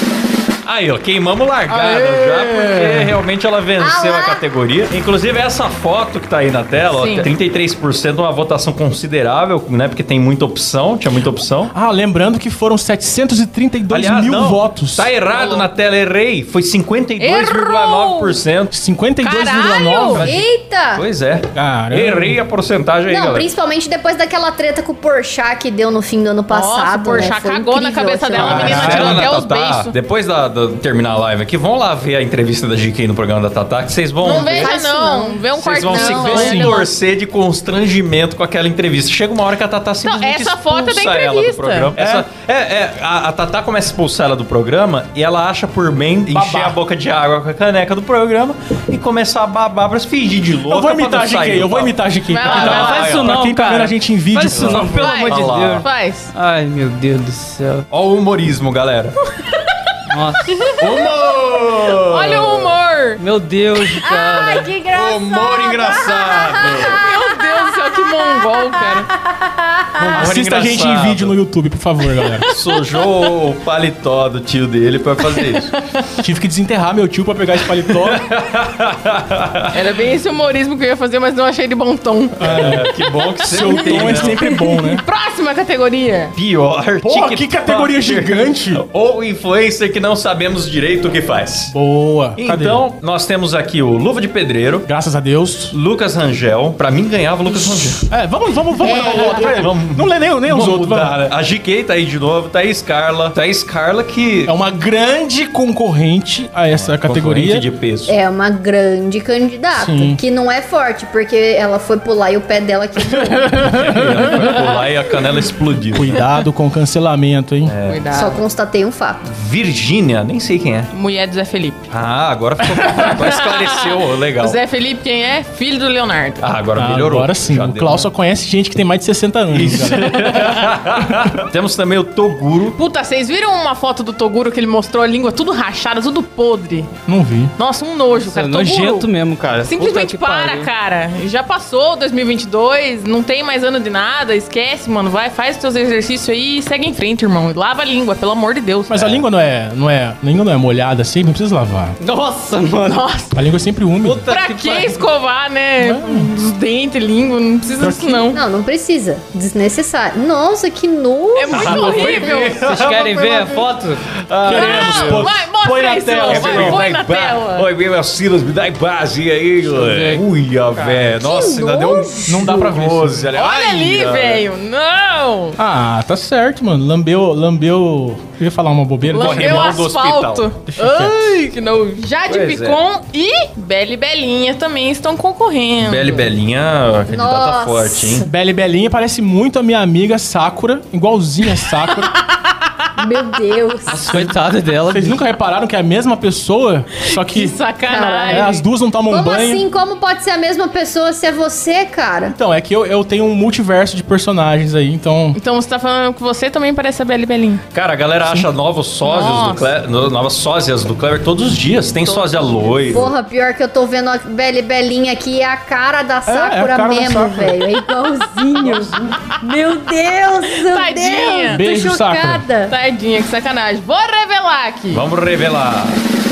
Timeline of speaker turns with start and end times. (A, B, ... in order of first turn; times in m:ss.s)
0:00.6-0:11.7 A
0:01.8-0:03.1 B
0:03.8-0:04.4 C
0:06.9-0:07.3 D
0:11.7-0:15.1 B
0:13.9-0:18.7 A
0:15.3-0:15.6 D
0:17.2-0:18.4 D
0:18.7-0:20.3 B
0:19.2-0:20.2 D
0:20.1-0:23.5 A
0:20.2-0:21.0 C
0:21.5-0:22.4 B
0:23.1-0:29.1 C
0:26.5-0:29.9 D
0:28.3-0:29.3 B
0:28.4-0:34.7 A
0:34.2-0:36.8 D
0:34.2-0:36.7 C
0:35.6-0:53.4 A
0:36.1-0:36.8 B
0:40.0-0:41.9 D
0:42.0-0:42.2 B
0:46.3-0:46.8 B
0:50.7-0:55.1 B
0:52.3-0:53.1 D
0:52.6-0:57.8 E
0:54.5-0:55.8 A
0:55.0-0:56.3 D
0:57.9-0:59.2 A
1:00.1-1:00.7 E
1:00.5-1:00.8 D
1:00.8-1:02.7 A
1:01.9-1:03.2 D
1:03.2-1:04.7 E
1:04.0-1:10.3 C
1:04.9-1:07.0 A
1:06.8-1:09.1 D
1:10.0-1:11.4 A
1:10.0-1:12.5 B
1:12.5-1:15.7 A
1:16.2-1:18.2 B
1:17.9-1:19.8 A
1:19.7-1:22.9 D
1:22.4-1:22.9 B
1:22.4-1:24.4 A
1:23.4-1:25.0 B
1:23.7-1:26.3 D
1:26.3-1:31.7 A
1:27.0-1:28.8 B
1:31.7-1:32.8 B
1:32.4-1:34.9 A
1:34.8-1:35.7 B
1:35.7-1:38.0 A
1:38.1-1:41.1 B
1:38.8-1:39.6 C
1:38.9-1:44.5 A
1:44.4-1:47.6 B
1:46.7-1:48.1 A
1:48.1-1:53.7 C
1:49.8-1:50.2 B
1:53.5-1:54.5 B
1:53.6-1:56.2 A
1:55.9-1:57.7 B
1:57.6-1:58.0 A
1:57.8-1:58.4 D
1:58.1-1:59.2 C
1:59.2-2:00.9 A
2:00.9-2:01.8 D
2:01.9-2:04.6 A
2:02.8-2:06.5 D
2:06.4-2:08.1 A
2:06.8-2:11.3 B
2:09.5-2:12.8 A
2:12.8-2:16.9 D
2:17.1-2:17.5 B
2:17.6-2:19.1 D
2:18.2-2:20.7 E
2:19.6-2:29.2 D
2:28.9-2:32.0 B
2:32.0-2:33.1 E
2:32.8-2:33.4 D
2:33.3-2:34.2 B
2:34.0-2:35.0 E
2:34.2-2:38.4 D
2:35.8-2:36.3 B
2:37.8-2:38.2 B
2:38.3-2:42.3 C
2:41.3-2:42.6 D
2:41.5-2:45.4 A
2:42.5-2:44.0 E
2:44.4-2:46.8 B
2:44.4-2:47.6 D
2:46.3-2:54.4 A
2:49.7-2:50.2 E
2:50.7-2:51.1 E
2:51.2-2:52.6 C
2:52.3-2:53.2 B
2:53.3-2:55.6 D
2:55.6-2:59.8 B
2:59.1-3:00.5 A
2:59.1-3:06.2 D
3:00.7-3:01.1 B
3:02.3-3:02.8 A
3:05.8-3:08.2 A
3:07.1-3:08.3 C
3:08.2-3:12.2 B
3:13.0-3:14.1 C
3:13.9-3:15.2 E
3:14.1-3:14.3 B
3:14.8-3:17.6 B
3:17.0-3:18.6 D
3:17.9-3:22.3 C
3:18.3-3:19.6 B
3:22.3-3:25.4 B
3:25.4-3:27.6 D
3:27.7-3:33.1 A
3:29.0-3:29.7 D
3:32.0-3:33.0 D
3:32.9-3:42.7 C
3:36.3-3:37.7 B
3:40.6-3:41.6 D
3:41.5-3:42.4 B
3:42.7-3:45.0 D
3:44.9-3:46.0 A